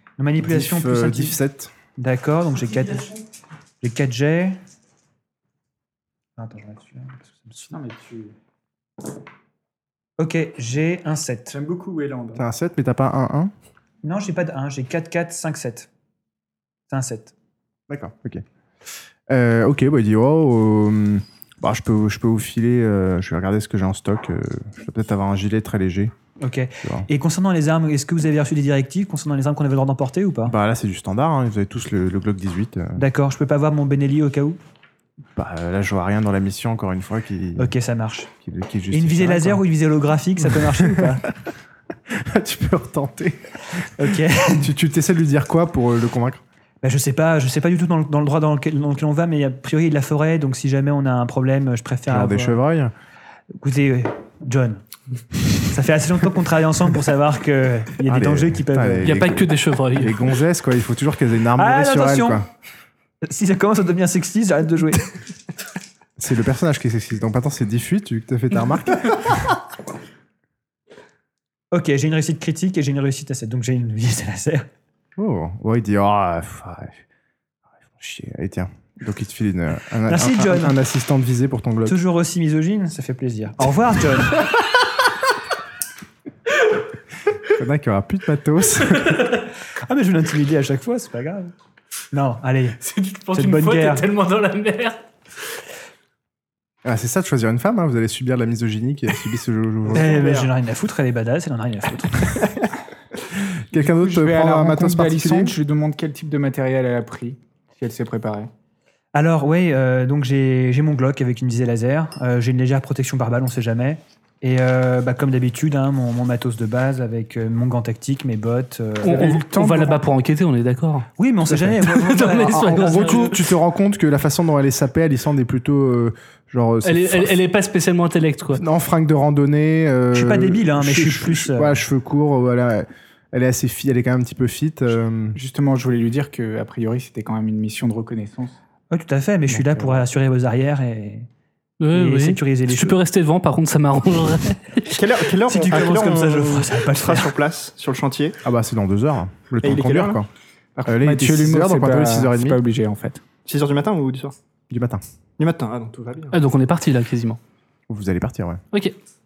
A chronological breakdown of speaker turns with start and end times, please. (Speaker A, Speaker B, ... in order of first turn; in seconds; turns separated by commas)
Speaker A: 0.2-1.4, Speaker B: 0.4-1.7, Speaker A: 2.0-3.2, Speaker A: 3.8-4.6, Speaker A: 6.4-7.7, Speaker C: 7.7-8.3, Speaker A: 10.2-11.5, Speaker C: 11.5-12.4, Speaker B: 12.3-13.5, Speaker A: 14.0-15.9, Speaker A: 16.9-17.3, Speaker B: 17.9-18.4, Speaker B: 19.3-26.1, Speaker A: 26.4-30.5, Speaker B: 26.8-27.1, Speaker B: 30.4-33.0, Speaker A: 33.0-34.6, Speaker B: 35.4-37.7, Speaker A: 37.6-38.3, Speaker B: 38.4-39.6, Speaker A: 38.9-41.3, Speaker B: 40.7-41.2, Speaker B: 42.1-43.5, Speaker A: 44.0-44.7, Speaker B: 44.5-46.4, Speaker A: 46.8-52.6, Speaker B: 52.1-52.9, Speaker A: 53.6-54.8, Speaker A: 55.7-59.2, Speaker B: 58.0-62.5, Speaker D: 59.0-60.2, Speaker A: 61.5-62.4, Speaker A: 63.2-65.1, Speaker B: 66.2-69.4, Speaker A: 71.7-74.7, Speaker B: 75.2-77.0, Speaker B: 77.9-82.0, Speaker A: 80.1-80.8, Speaker A: 81.8-84.5, Speaker B: 87.5-89.2, Speaker A: 89.8-91.5, Speaker A: 92.1-92.8, Speaker D: 92.8-95.0, Speaker A: 93.3-94.0, Speaker B: 96.8-100.5, Speaker A: 99.9-102.5, Speaker B: 103.5-105.5, Speaker C: 103.7-108.5, Speaker A: 109.1-119.4, Speaker D: 119.0-121.1, Speaker C: 119.1-120.0, Speaker A: 121.2-123.3, Speaker B: 121.5-127.4, Speaker D: 121.8-123.5, Speaker D: 126.8-128.6, Speaker B: 128.5-135.4, Speaker A: 130.1-131.8, Speaker C: 135.3-138.6, Speaker A: 138.9-141.3, Speaker B: 139.5-140.0, Speaker D: 141.8-145.0, Speaker A: 141.9-143.0, Speaker E: 144.9-148.4, Speaker A: 145.4-147.3, Speaker B: 148.4-150.3, Speaker E: 149.6-150.2, Speaker C: 150.8-153.2, Speaker B: 150.8-152.6, Speaker E: 153.4-154.3, Speaker B: 154.7-155.0, Speaker E: 155.4-156.4, Speaker D: 156.3-157.4, Speaker B: 157.9-158.6